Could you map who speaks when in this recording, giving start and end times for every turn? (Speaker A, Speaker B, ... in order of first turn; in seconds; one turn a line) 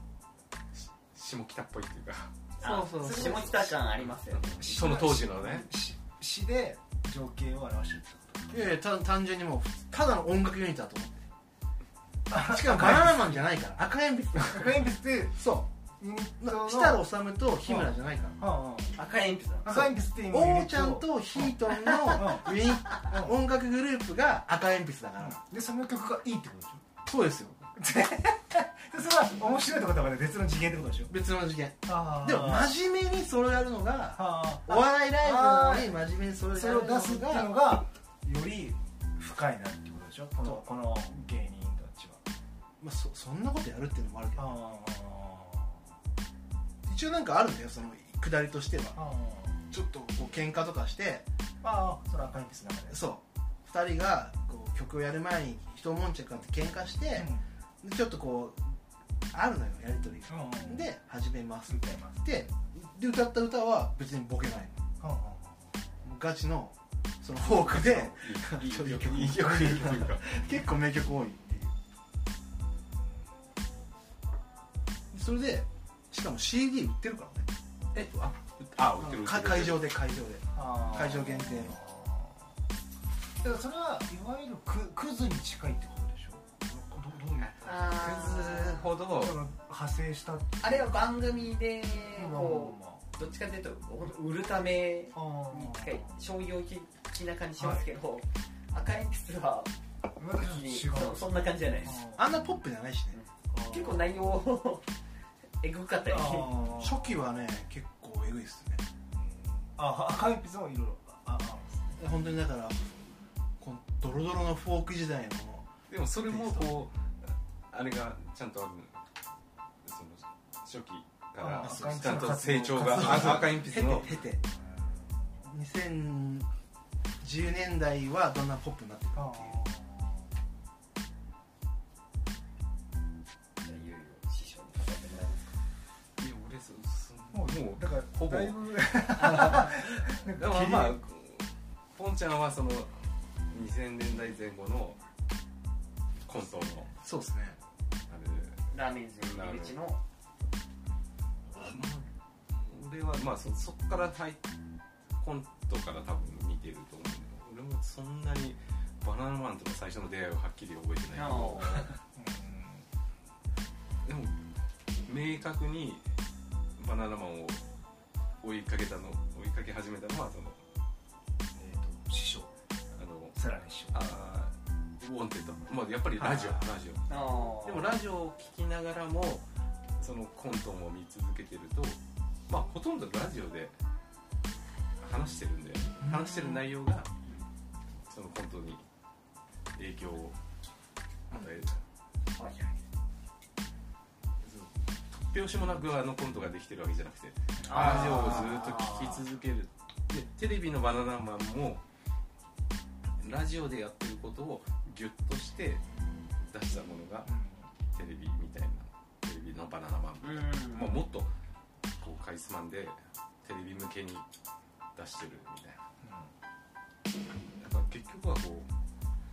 Speaker A: 0.7-2.4
Speaker B: 2.6-4.7
Speaker C: 2.6-3.5
Speaker D: 3.0-3.6
Speaker A: 4.0-5.7
Speaker D: 4.6-8.6
Speaker C: 8.5-11.2
Speaker D: 12.3-13.4
Speaker C: 12.3-14.8
Speaker D: 14.3-15.4
Speaker C: 15.3-15.7
Speaker D: 16.0-17.0
Speaker C: 16.4-18.4
Speaker D: 17.6-18.9
Speaker B: 18.9-19.9
Speaker D: 19.6-23.4
Speaker C: 19.7-25.4
Speaker D: 25.2-26.8
Speaker C: 27.0-27.6
Speaker D: 27.8-31.1
Speaker C: 31.1-37.5
Speaker D: 31.9-32.7
Speaker D: 34.1-36.0
Speaker D: 36.5-42.2
Speaker C: 42.8-44.5
Speaker D: 44.4-45.8
Speaker C: 46.8-49.0
Speaker D: 48.9-49.6
Speaker C: 49.7-51.2
Speaker D: 51.6-53.0
Speaker C: 52.9-58.8
Speaker D: 57.1-57.4
Speaker C: 59.3-64.8
Speaker D: 60.3-60.9
Speaker D: 61.7-62.2
Speaker D: 65.0-65.8
Speaker C: 66.0-71.7
Speaker A: 67.4-70.3
Speaker C: 75.1-77.5
Speaker A: 77.9-79.8
Speaker C: 79.0-81.8
Speaker D: 80.5-82.4
Speaker D: 83.4-91.1
Speaker A: 87.4-89.4
Speaker B: 87.6-88.8
Speaker B: 90.6-99.7
Speaker D: 92.1-93.0
Speaker D: 95.1-96.1
Speaker D: 97.6-97.8
Speaker D: 100.2-102.3
Speaker B: 100.3-102.0
Speaker C: 102.2-103.2
Speaker B: 103.1-104.8
Speaker D: 103.5-104.0
Speaker B: 105.6-106.6
Speaker D: 106.1-107.3
Speaker C: 106.7-108.8
Speaker D: 109.2-112.0
Speaker C: 112.0-113.0
Speaker C: 113.6-115.7
Speaker A: 115.9-119.0
Speaker C: 116.3-116.7
Speaker A: 119.8-124.1
Speaker D: 121.4-125.0
Speaker C: 121.5-124.4
Speaker C: 125.4-126.5
Speaker C: 127.2-129.6
Speaker D: 129.2-130.3
Speaker B: 133.6-135.5
Speaker A: 136.2-138.6
Speaker D: 137.3-140.9
Speaker A: 139.2-145.0
Speaker A: 146.2-146.9
Speaker C: 147.0-147.6
Speaker A: 148.1-148.7
Speaker B: 148.7-150.0
Speaker A: 149.2-149.8
Speaker A: 151.5-154.4
Speaker A: 155.2-161.9
Speaker B: 161.1-161.9
Speaker D: 162.1-162.8
Speaker A: 164.0-164.4
Speaker A: 165.1-166.1
Speaker A: 166.8-167.6
Speaker A: 168.4-170.6
Speaker D: 171.5-172.5
Speaker A: 172.9-173.4
Speaker D: 173.3-174.2
Speaker A: 173.9-177.1
Speaker B: 177.1-177.9
Speaker A: 177.6-179.5
Speaker A: 180.0-183.7
Speaker A: 185.0-187.1
Speaker C: 186.1-186.6
Speaker A: 188.1-188.8
Speaker A: 189.7-190.4
Speaker A: 191.3-191.8
Speaker B: 192.3-192.7
Speaker A: 194.4-201.8
Speaker D: 197.6-198.3
Speaker B: 197.7-199.2
Speaker A: 203.2-205.8
Speaker A: 206.4-207.3
Speaker D: 207.3-207.6
Speaker A: 207.9-211.3
Speaker B: 210.2-211.0
Speaker A: 212.0-214.2
Speaker A: 214.9-215.8
Speaker D: 216.0-216.3
Speaker A: 217.6-218.7